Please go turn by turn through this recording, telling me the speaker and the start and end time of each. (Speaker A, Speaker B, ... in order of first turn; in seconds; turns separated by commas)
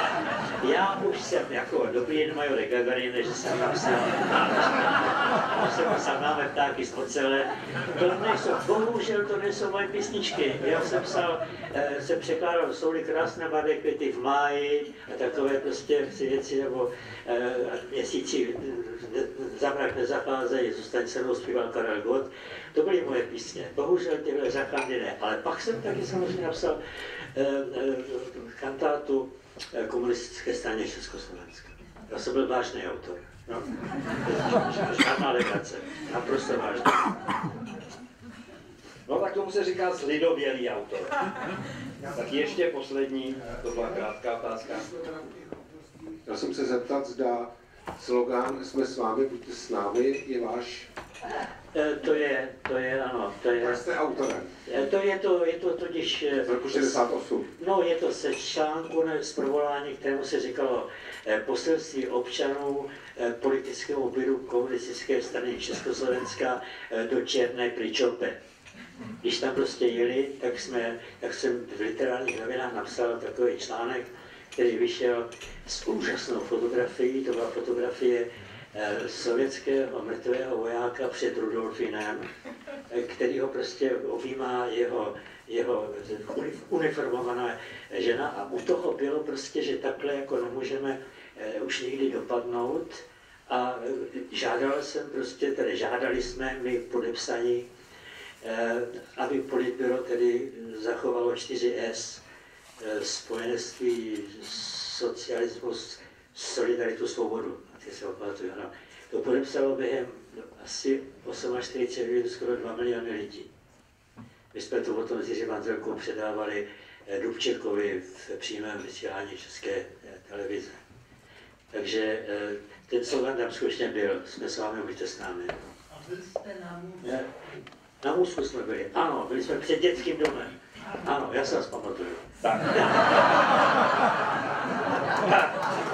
Speaker A: 0.6-26.8, Speaker A: 27.3-37.2, Speaker B: 39.0-41.2, Speaker B: 42.0-45.0, Speaker C: 46.1-50.9, Speaker A: 51.7-53.9, Speaker C: 53.6-54.5, Speaker A: 54.6-68.4, Speaker C: 56.4-57.5, Speaker A: 69.2-82.3, Speaker A: 82.9-97.7, Speaker A: 98.4-102.2, Speaker A: 102.8-113.5, Speaker A: 114.5-120.8, Speaker A: 121.7-125.7, Speaker A: 127.0-127.3, Speaker A: 128.0-132.2, Speaker B: 132.4-133.3, Speaker B: 135.0-135.7